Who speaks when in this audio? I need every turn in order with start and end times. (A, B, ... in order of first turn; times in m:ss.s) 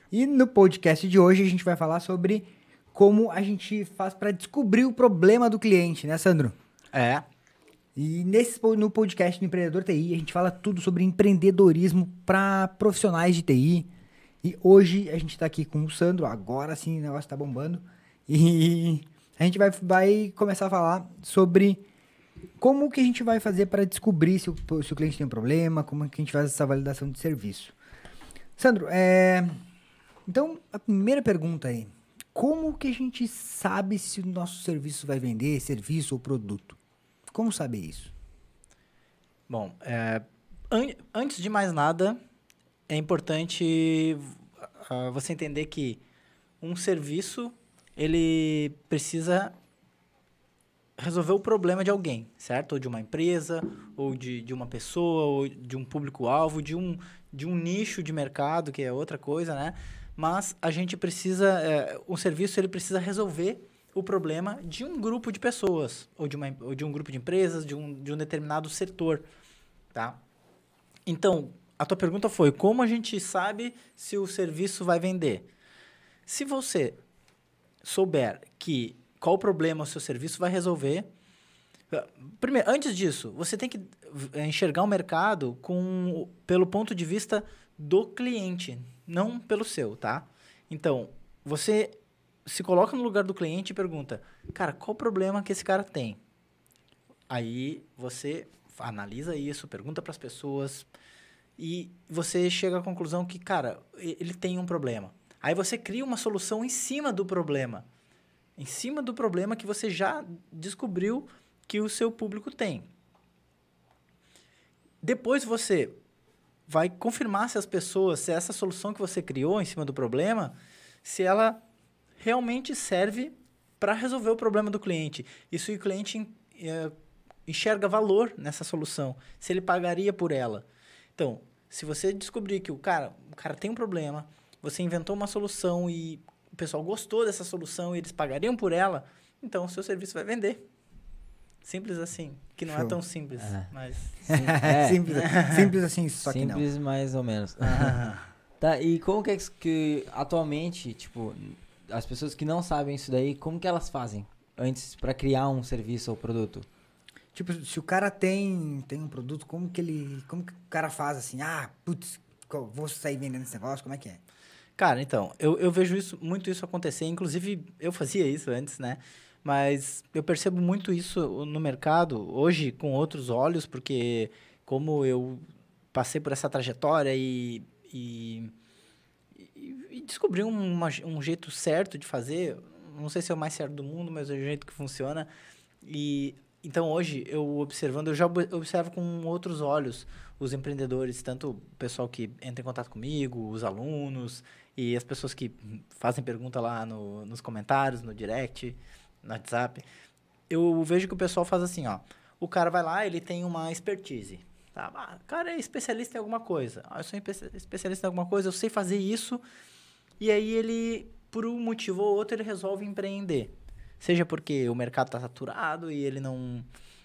0:00.1-0:06.6 A
0:06.9-0:07.2 B
0:08.0-0:13.9 A
0:14.4-0:21.8 A
0:22.6-0:27.8 A
0:28.6-0:29.6 A
0:30.3-0:36.8 A
0:37.3-0:38.1 A
0:39.5-0:42.2 B
0:42.9-0:46.0 B
0:46.6-0:49.5 B
0:51.0-1:09.2 B
1:09.9-1:10.2 B
1:11.1-1:15.5 B
1:16.3-1:17.0 B
1:17.8-1:21.1 B
1:21.9-1:31.9 B
1:32.4-1:36.2 B
1:37.3-1:40.9 B
1:41.6-1:47.8 B
1:48.6-1:52.9 B
1:55.0-1:55.9 B
1:56.7-2:01.6 B
2:02.2-2:06.9 B
2:07.4-2:10.6 B
2:11.2-2:20.6 B
2:21.6-2:24.5 B
2:22.7-2:23.0 A
2:23.4-2:23.7 C
2:24.2-2:25.0 C
2:24.3-2:26.6 A
2:25.2-2:25.6 B
2:26.2-2:28.0 C
2:27.6-2:28.3 B
2:28.6-2:36.7 C
2:37.3-2:44.2 A
2:44.8-2:58.5 B
2:59.4-3:05.3 B
3:05.8-3:19.8 B
3:20.5-3:29.4 B
3:30.2-3:36.7 B